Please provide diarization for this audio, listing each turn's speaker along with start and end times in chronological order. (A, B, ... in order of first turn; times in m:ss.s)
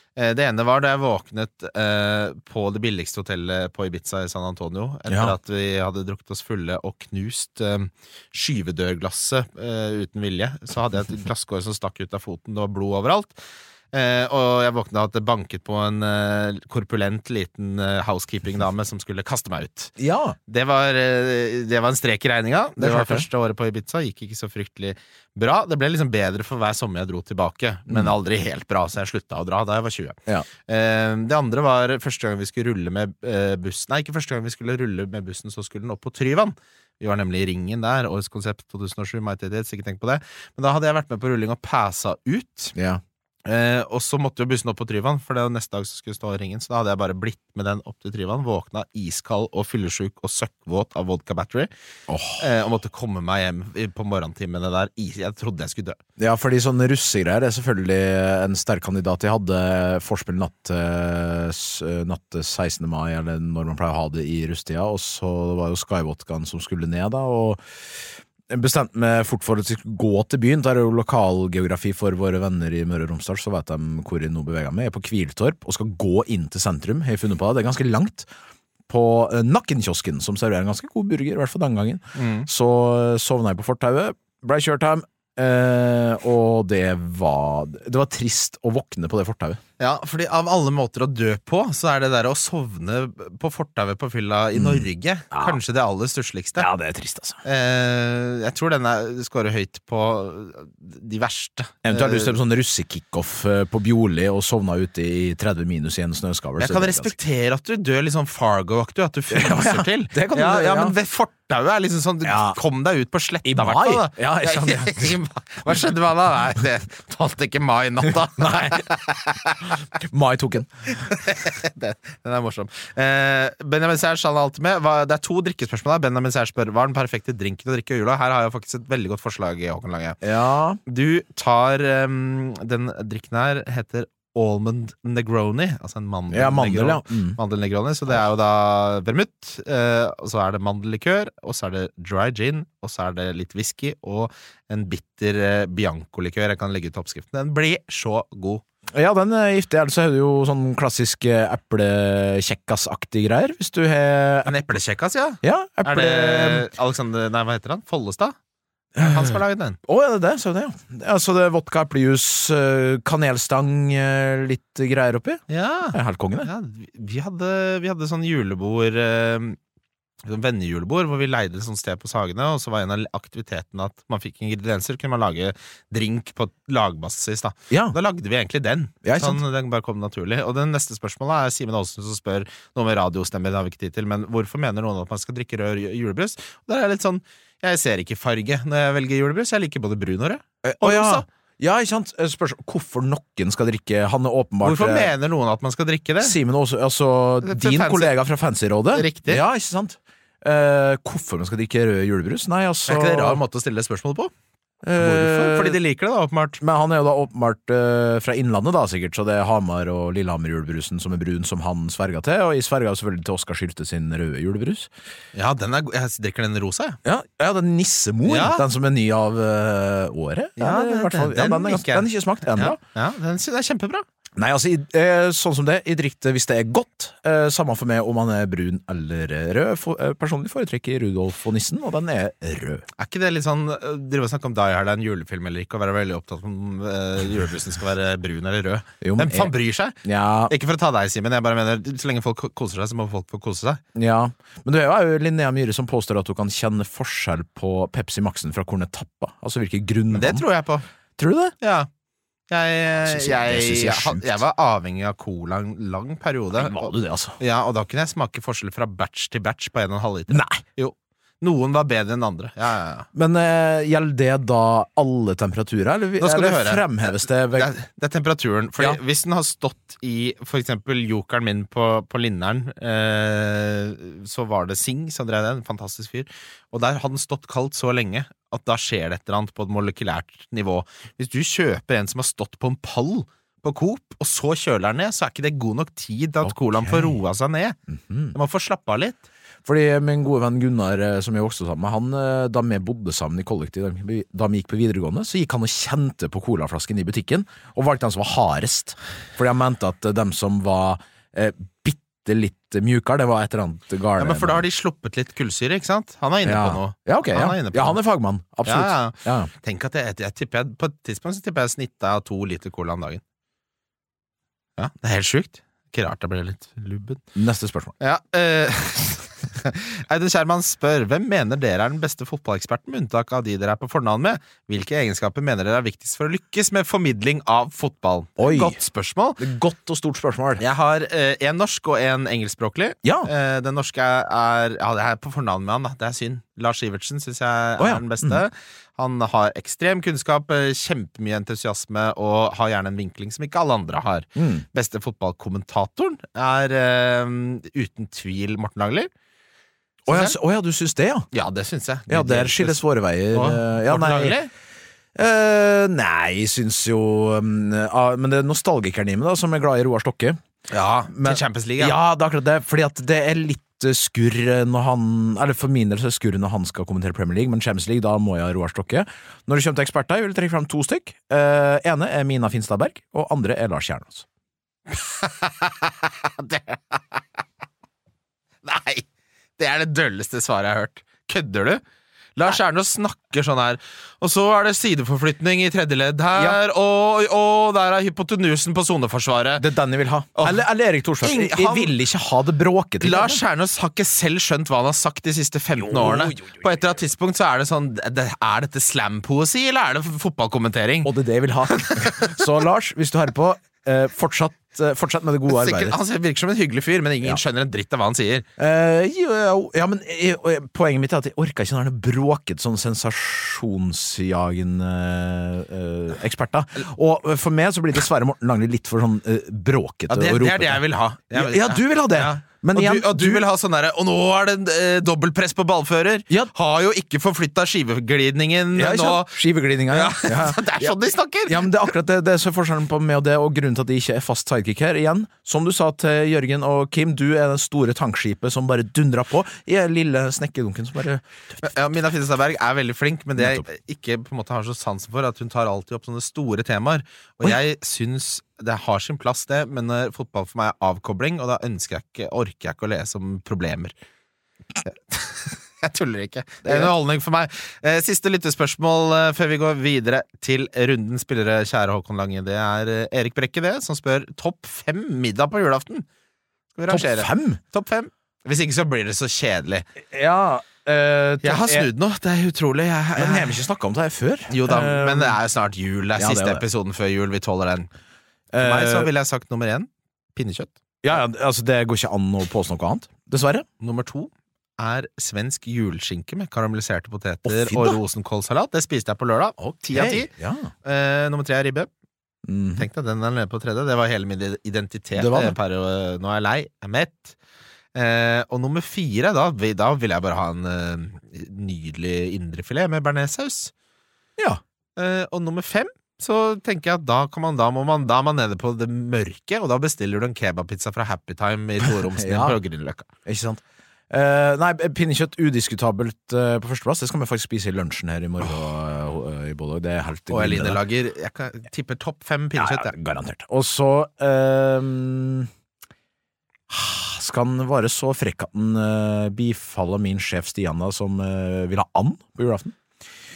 0:00.2-0:13.4 A
0:05.1-0:05.4 B
0:13.9-0:19.9 A
0:20.0-0:20.4 B
0:20.5-0:42.8 A
0:22.8-0:23.3 B
0:42.8-0:43.0 B
0:43.5-0:51.7 A
0:52.1-0:52.4 B
0:52.4-0:56.0 A
0:56.2-1:18.3 B
1:18.9-1:29.6 B
1:22.2-1:22.5 A
1:29.8-1:36.7 A
1:34.6-1:35.6 B
1:36.6-1:37.4 B
1:37.4-1:42.4 A
1:41.8-1:47.1 B
1:46.6-1:59.8 A
1:49.3-1:51.0 B
1:52.2-1:52.6 B
1:53.4-1:55.2 B
1:58.1-1:59.0 B
1:59.9-2:01.1 B
2:01.0-2:10.2 A
2:10.2-2:10.8 B
2:10.8-2:28.6 A
2:16.3-2:17.4 B
2:28.9-2:34.5 B
2:34.4-2:38.4 A
2:35.4-2:36.7 B
2:39.0-2:39.8 A
2:39.0-2:46.5 B
2:45.5-2:49.6 A
2:50.2-3:11.3 A
2:57.7-2:58.0 B
2:59.0-2:59.4 B
3:10.6-3:15.1 B
3:14.6-3:16.4 A
3:16.2-3:23.4 B
3:17.4-3:18.1 A
3:18.9-3:19.4 A
3:22.9-3:24.3 A
3:24.8-3:25.8 B
3:25.0-3:26.6 A
3:26.6-3:34.9 B
3:35.3-3:37.0 A
3:37.0-3:42.8 B
3:38.3-3:38.6 A
3:40.6-3:44.0 A
3:44.4-3:52.9 B
3:53.0-4:03.8 A
3:59.0-4:00.5 B
4:04.0-4:10.4 B
4:10.1-4:10.9 A
4:11.2-4:11.5 B
4:11.6-4:11.9 A
4:12.5-4:23.1 A
4:13.0-4:14.4 B
4:16.6-4:17.4 B
4:20.3-4:20.6 B
4:23.1-4:27.7 B
4:26.2-4:47.8 A
4:46.4-4:47.1 B
4:47.9-4:48.4 B
4:48.3-4:49.2 A
4:49.6-5:04.6 B
5:04.2-5:08.0 A
5:06.4-5:09.5 B
5:08.6-5:13.2 A
5:14.8-5:17.2 A
5:17.4-5:17.9 B
5:18.0-5:29.4 A
5:28.4-5:28.8 B
5:29.4-5:30.6 B
5:30.6-5:49.1 A
5:33.0-5:33.3 B
5:37.8-5:38.4 B
5:44.4-5:44.6 B
5:50.1-5:51.3 B
5:50.1-5:50.4 A
5:51.3-5:52.8 A
5:52.1-5:54.4 B
5:53.3-5:54.5 A
5:55.2-6:00.4 B
6:00.7-6:02.0 A
6:01.1-6:14.3 B
6:14.9-6:17.2 A
6:18.6-6:19.1 A
6:19.6-6:21.8 A
6:22.4-6:29.6 A
6:29.6-6:33.4 B
6:30.4-6:30.6 A
6:31.2-6:32.0 A
6:33.0-6:41.1 A
6:35.8-6:36.7 B
6:41.0-6:46.0 B
6:41.7-6:42.5 A
6:45.5-6:48.5 A
6:48.6-7:00.8 B
7:00.1-7:11.9 A
7:01.3-7:03.4 B
7:08.8-7:10.9 B
7:11.5-7:22.0 B
7:21.6-7:33.9 A
7:23.4-7:23.6 B
7:34.8-7:46.1 A
7:36.6-7:36.9 B
7:46.7-7:49.9 A
7:46.9-7:47.6 B
7:50.1-7:51.9 B
7:51.4-7:53.6 A
7:53.2-7:55.4 B
7:54.5-7:57.9 A
7:56.2-7:56.6 B
7:58.5-7:59.1 B
7:58.6-8:00.7 A
8:01.0-8:03.7 B
8:03.8-8:10.3 A
8:07.4-8:08.0 B
8:09.9-8:10.7 B
8:10.8-8:11.9 A
8:12.4-8:12.9 B
8:12.8-8:17.4 A
8:15.2-8:15.6 B
8:17.9-8:23.7 A
8:25.0-8:33.1 A
8:32.0-8:32.6 B
8:33.3-8:40.8 B
8:40.3-8:42.9 A
8:42.6-8:45.5 B
8:46.7-8:52.8 B